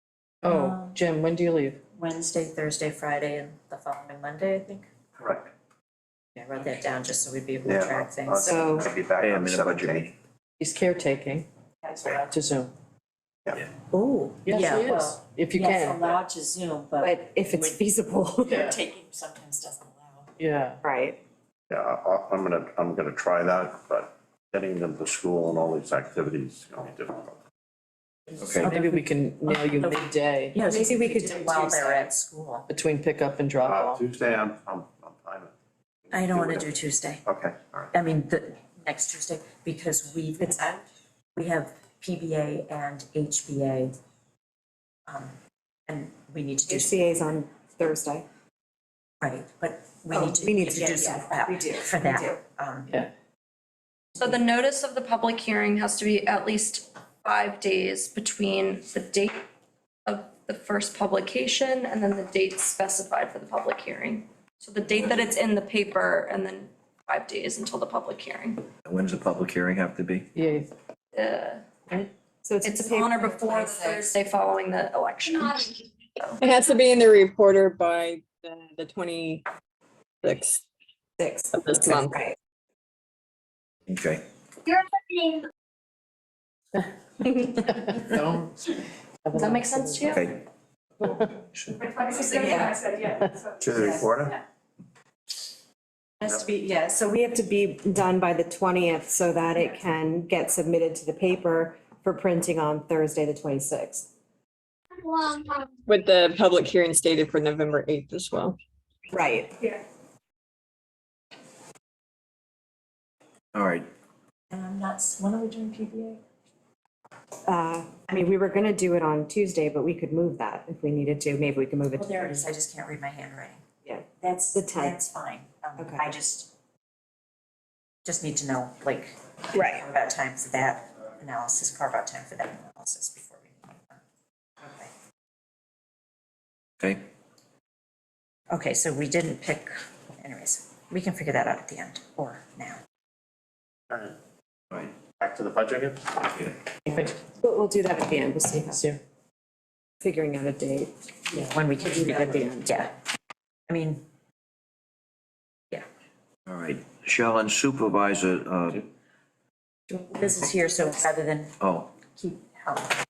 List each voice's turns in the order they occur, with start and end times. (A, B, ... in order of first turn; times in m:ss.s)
0:00.4-0:01.8 A
0:00.5-0:01.0 B
0:02.0-0:04.9 B
0:05.2-0:05.5 C
0:06.4-0:08.8 B
0:07.6-0:10.1 C
0:08.4-0:08.9 D
0:09.1-0:10.1 E
0:10.6-0:11.5 A
0:11.8-0:12.2 B
0:12.0-0:12.7 A
0:13.9-0:20.3 B
0:14.4-0:16.0 A
0:17.0-0:18.7 D
0:20.4-0:20.8 A
0:20.8-0:21.2 D
0:21.7-0:27.4 C
0:28.4-0:28.7 E
0:28.5-0:30.6 A
0:28.6-0:32.7 B
0:30.6-0:32.1 D
0:32.7-0:34.0 A
0:33.6-0:35.5 C
0:36.1-0:37.2 B
0:36.1-0:36.7 C
0:37.2-0:37.9 C
0:37.9-0:40.8 B
0:40.4-0:40.7 D
0:41.4-0:43.9 B
0:45.1-0:45.3 B
0:45.9-0:47.0 B
0:46.7-0:48.3 D
0:49.2-0:52.9 B
0:50.1-0:52.4 D
0:54.2-0:59.4 F
1:00.1-1:08.7 F
1:08.8-1:10.3 E
1:10.4-1:10.7 A
1:11.1-1:12.0 F
1:12.4-1:14.2 D
1:12.6-1:16.4 F
1:16.4-1:19.4 G
1:20.2-1:20.6 G
1:21.2-1:22.3 D
1:21.5-1:22.3 G
1:23.9-1:24.2 E
1:27.7-1:28.5 A
1:29.2-1:30.2 A
1:29.4-1:30.3 F
1:30.1-1:30.4 E
1:31.0-1:31.8 E
1:31.8-1:34.2 H
1:32.4-1:32.8 D
1:32.4-1:32.7 B
1:33.6-1:34.4 C
1:36.2-1:44.1 D
1:45.9-1:48.6 G
1:49.1-1:49.5 D
1:53.5-1:53.9 E
1:54.5-1:56.2 B
1:57.5-2:02.4 D
2:01.9-2:03.6 B
2:03.8-2:05.0 D
2:04.2-2:06.5 B
2:05.8-2:06.1 D
2:08.0-2:14.0 B
2:09.5-2:09.8 D
2:14.6-2:14.9 B
2:16.8-2:17.1 E
2:18.5-2:22.8 B
2:23.9-2:24.2 C
2:25.1-2:26.5 C
2:26.9-2:27.2 A
2:27.4-2:28.8 D
2:28.7-2:29.0 A
2:30.0-2:32.7 D
2:31.3-2:32.9 B
2:33.7-2:34.0 B
2:36.5-2:38.9 E
2:39.9-2:41.5 B
2:41.6-2:41.9 E
2:42.1-2:42.9 B